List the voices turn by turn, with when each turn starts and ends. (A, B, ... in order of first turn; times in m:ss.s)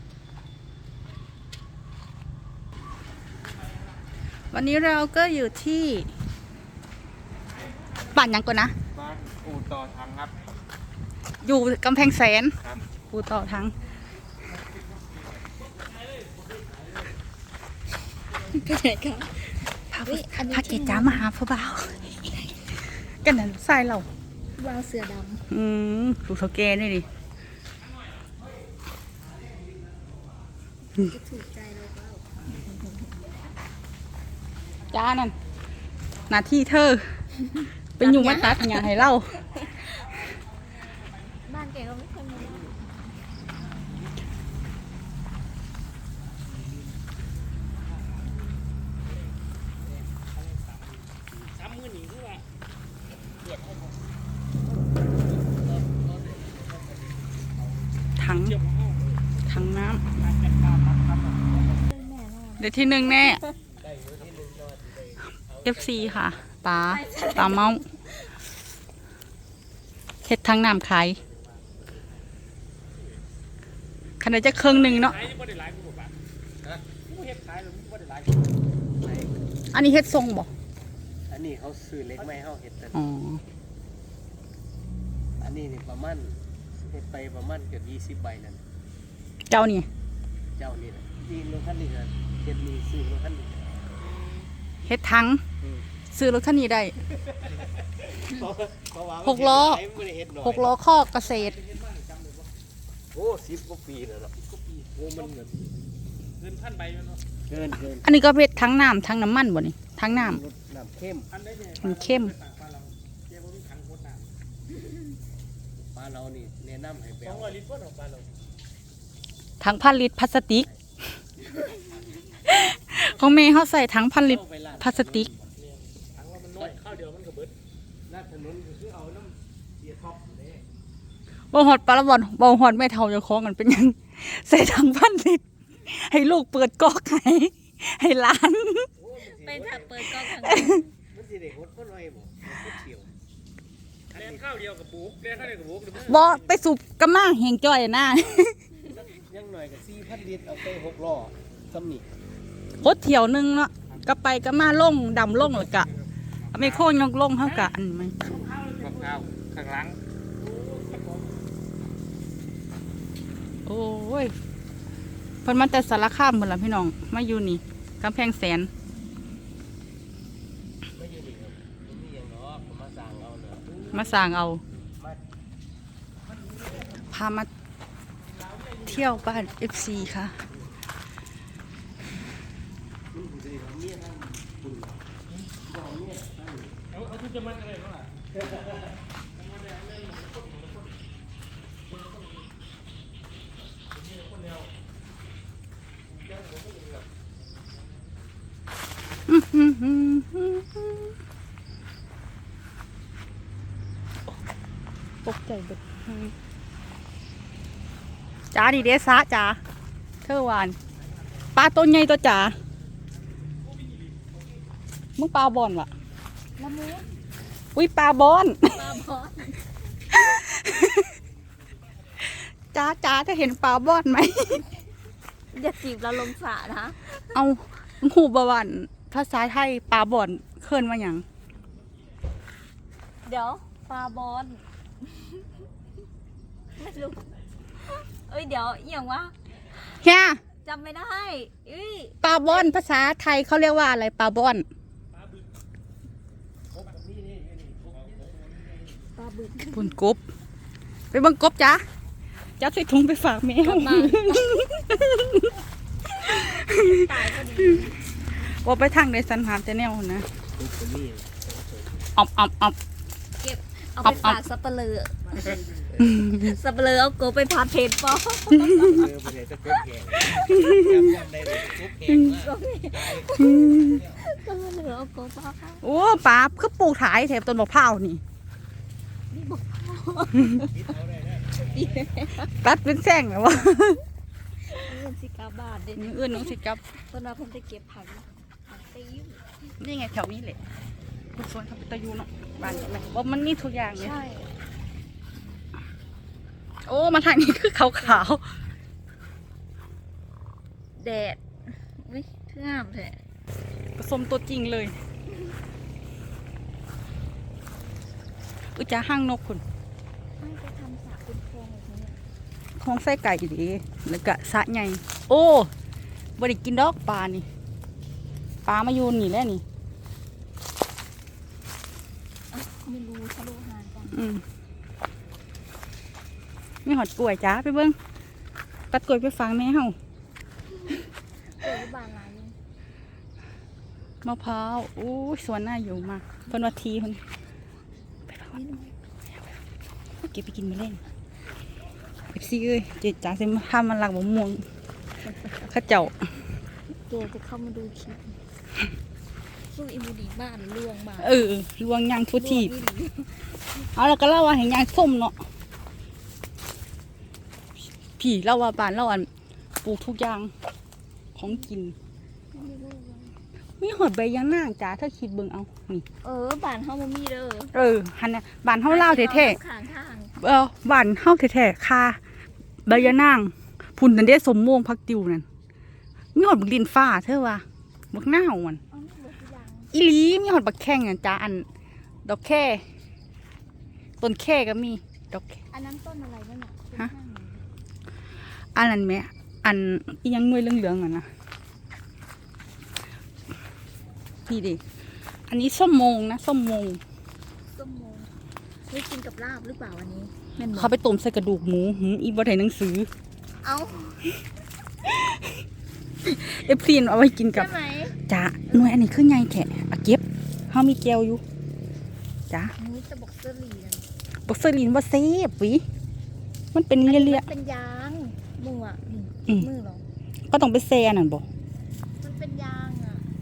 0:04.5-0:06.1 A
0:08.1-0:08.7 A
0:09.3-0:09.7 B
0:11.4-0:13.7 A
0:18.3-0:21.3 C
0:19.9-0:22.0 A
0:22.2-0:22.5 C
0:23.2-0:24.1 A
0:24.6-0:25.4 C
0:25.5-0:27.1 A
0:31.0-0:33.1 C
0:34.9-0:35.4 A
0:36.3-0:37.1 A
0:38.0-0:38.9 C
0:38.0-0:39.4 A
0:39.5-0:39.9 C
0:41.4-0:42.9 C
0:50.2-0:52.4 B
0:55.2-0:58.1 D
0:58.2-0:58.6 A
0:58.3-0:59.0 B
0:59.5-1:00.0 A
1:00.2-1:01.5 B
1:01.7-1:03.6 C
1:02.6-1:03.4 A
1:03.8-1:06.5 D
1:05.6-1:07.8 A
1:06.8-1:08.3 C
1:10.2-1:11.2 A
1:14.2-1:15.2 A
1:14.6-1:16.2 B
1:16.6-1:16.9 D
1:17.0-1:18.5 B
1:19.0-1:19.3 D
1:19.7-1:20.5 A
1:21.3-1:23.1 D
1:23.0-1:23.4 A
1:25.4-1:28.6 D
1:29.5-1:29.9 A
1:30.6-1:33.7 D
1:34.9-1:35.4 A
1:36.1-1:37.0 A
1:38.0-1:40.8 D
1:39.2-1:39.8 A
1:40.4-1:41.6 A
1:41.3-1:42.5 B
1:43.1-1:44.4 D
1:44.6-1:45.2 B
1:44.9-1:45.7 D
1:46.4-1:47.2 B
1:47.5-1:48.1 D
1:48.0-1:50.4 A
1:50.1-1:51.3 D
1:51.3-1:54.3 B
1:51.8-1:52.3 A
1:55.9-1:57.6 D
1:57.3-1:58.3 B
1:59.6-2:00.7 A
2:02.4-2:05.3 A
2:04.2-2:05.5 D
2:05.6-2:07.6 B
2:08.1-2:10.6 D
2:11.5-2:18.9 A
2:19.0-2:20.1 D
2:19.2-2:20.9 C
2:20.3-2:20.7 A
2:21.1-2:23.1 D
2:24.1-2:24.6 D
2:24.1-2:26.5 B
2:26.0-2:28.6 A
2:28.8-2:32.1 D
2:32.8-2:35.9 A
2:35.5-2:35.9 B
2:36.5-2:36.9 B
2:36.5-2:38.3 A
2:38.3-2:41.4 B
2:43.7-2:44.3 A
2:45.4-2:48.7 A
2:50.9-2:55.2 D
2:53.9-2:54.6 A
2:57.1-2:57.5 A
2:58.8-3:00.4 A
3:03.1-3:05.0 D
3:05.6-3:06.8 D
3:06.9-3:08.1 B
3:09.4-3:10.9 B
3:14.0-3:14.7 B
3:16.3-3:17.0 B
3:19.3-3:21.1 A
3:25.2-3:26.3 A
3:28.5-3:29.6 A
3:30.2-3:30.8 A
3:31.6-3:32.6 A
3:35.2-3:35.9 A
3:36.6-3:37.1 C
3:37.8-3:38.9 A
3:38.7-3:39.7 C
3:40.1-3:41.1 A
3:42.2-3:44.6 A
3:45.5-3:47.4 C
3:47.3-3:51.2 A
3:53.2-3:55.4 C
3:56.8-3:57.3 C
3:57.8-3:59.3 C
4:00.0-4:00.4 A
4:00.6-4:02.7 C
4:02.2-4:04.7 A
4:06.8-4:08.7 D
4:09.2-4:10.0 C
4:09.7-4:10.2 A
4:11.1-4:11.8 A
4:12.6-4:15.5 A
4:13.6-4:14.7 C
4:16.1-4:18.2 C
4:16.4-4:17.1 A
4:18.4-4:20.3 A
4:20.6-4:22.0 D
4:22.2-4:22.8 A
4:23.4-4:29.1 C
4:24.0-4:24.4 A
4:28.8-4:34.2 D
4:30.2-4:30.4 C
4:30.4-4:30.9 A
4:32.1-4:35.8 C
4:33.4-4:34.0 A
4:35.8-4:38.2 A
4:39.3-4:40.7 C
4:40.5-4:41.8 D
4:41.5-4:42.5 C
4:42.5-4:44.0 A
4:44.6-4:49.6 C
4:46.0-4:46.8 A
4:49.8-4:50.6 A
4:51.4-4:54.2 A
4:52.6-4:53.0 C
4:54.0-4:54.5 C
4:56.8-4:58.4 A
4:57.8-4:58.3 C
5:01.0-5:03.2 C
5:04.0-5:05.0 A
5:08.8-5:09.6 A
5:10.4-5:12.2 C
5:12.8-5:15.7 A
5:16.4-5:17.5 A
5:18.6-5:19.6 A
5:22.5-5:24.2 C
5:24.1-5:24.4 A
5:26.8-5:28.0 A
5:28.9-5:30.0 A
5:31.6-5:32.6 C
5:34.2-5:37.2 A
5:38.3-5:38.6 A
5:38.5-5:39.0 C
5:40.2-5:41.0 A
5:42.3-5:44.6 A
5:45.2-5:45.7 C
5:45.7-5:46.1 A
5:47.0-5:48.4 C
5:49.7-5:51.5 C
5:51.2-5:52.7 A
5:52.4-5:53.9 C
5:54.0-5:55.4 A
5:58.2-5:59.3 A
5:59.8-6:00.5 A
6:01.4-6:02.0 A
6:02.5-6:03.4 C
6:03.8-6:06.0 A
6:06.2-6:07.7 C
6:07.7-6:09.6 A
6:08.9-6:10.3 C
6:10.4-6:12.2 A
6:12.8-6:15.4 A
6:16.4-6:18.8 A
6:18.9-6:19.9 C
6:19.9-6:21.7 A
6:22.2-6:22.8 A
6:24.2-6:25.6 A
6:25.7-6:27.7 C
6:28.8-6:31.3 A
6:34.5-6:34.8 A
6:35.5-6:37.0 A
6:37.7-6:38.3 C
6:38.9-6:40.9 C
6:40.7-6:43.1 A
6:43.6-6:44.3 C
6:45.0-6:45.6 A
6:46.2-6:51.4 A
6:47.5-6:48.2 C
6:52.8-6:54.1 C
6:54.5-6:55.8 A
6:56.7-6:57.5 A
6:57.0-7:00.0 C
7:00.5-7:01.4 A
7:02.2-7:03.3 C